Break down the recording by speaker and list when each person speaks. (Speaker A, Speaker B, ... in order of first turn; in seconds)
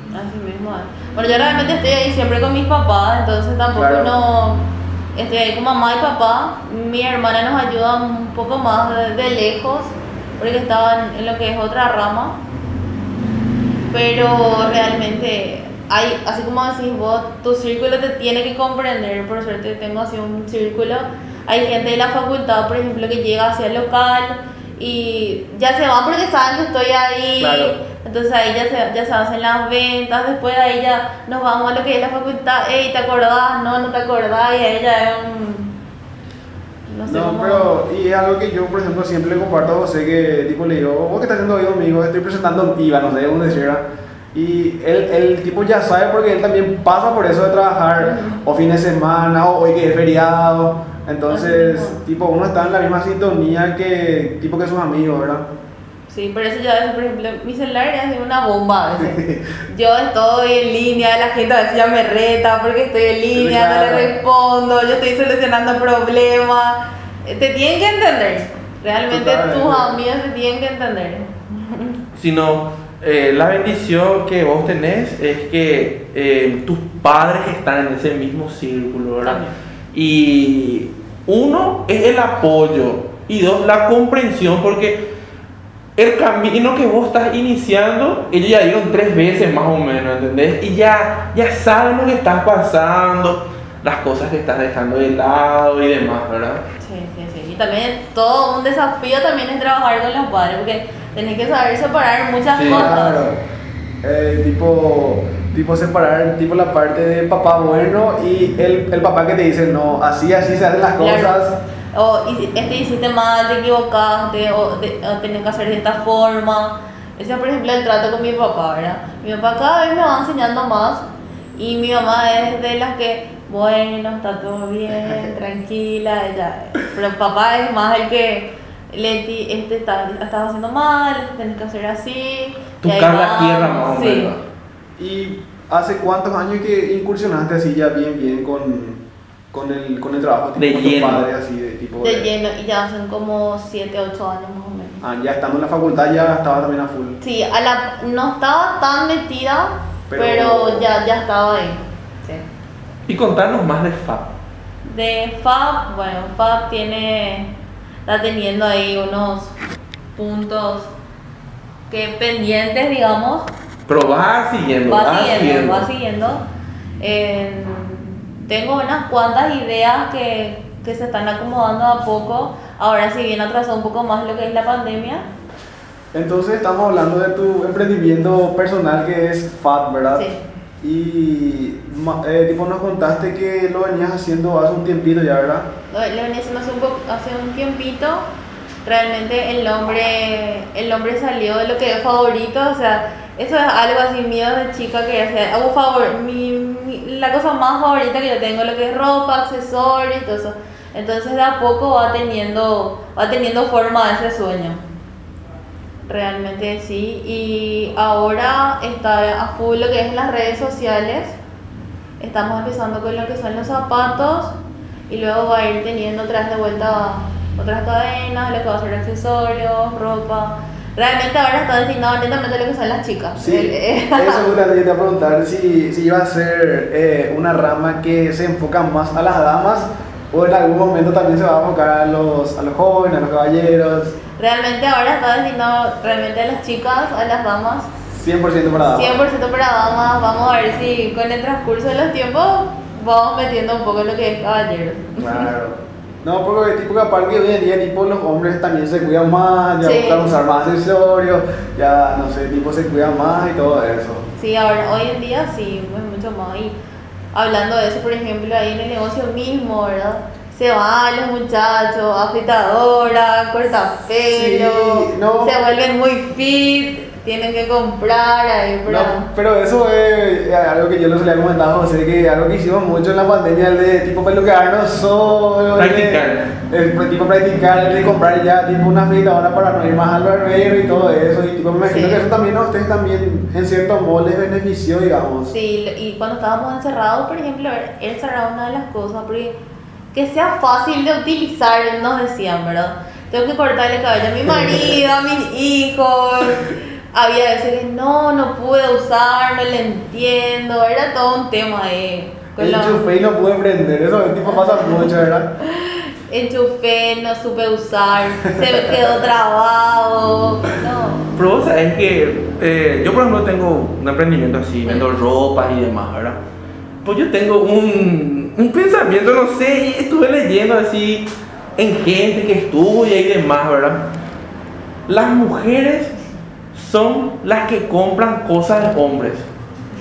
Speaker A: 0.1-12.4, 13.9-35.7, 36.9-37.7, 48.0-48.4, 51.3-52.0, 56.1-72.0, 79.2-79.5, 96.8-103.3, 111.0-111.4, 111.9-134.3, 142.0-145.0, 147.2-152.4, 154.8-157.5, 158.1-159.5, 160.2-160.9, 161.9-163.5, 164.9-166.4, 167.0-175.2, 180.1-180.4, 185.9-188.2, 188.8-204.8, 206.1-211.3, 212.2-214.5, 215.1-224.4, 234.4-237.9, 238.9-245.5, 249.8-250.3, 254.4-256.8, 257.3-269.3, 281.8-282.2, 285.5-289.5, 290.1-303.0, 304.4-311.3
Speaker B: 3.7-4.1, 27.4-27.7, 37.1-43.8, 44.3-55.5, 59.0-59.6, 63.3-64.2, 69.1-70.0, 102.6-103.4, 104.0-111.6, 135.0-142.3, 145.0-147.2, 150.1-150.9, 176.1-180.3, 180.8-185.7, 223.4-234.2, 238.1-239.2, 245.2-254.2, 264.3-265.5, 268.9-285.5, 294.5-295.0, 302.6-305.5, 308.7-309.0
Speaker C: 72.1-85.1, 86.0-96.6, 102.5-102.9, 132.8-134.4, 140.6-141.2, 153.1-154.3, 163.9-165.9, 275.8-276.5, 311.3-316.4, 317.0-324.1, 325.1-326.1, 326.7-329.5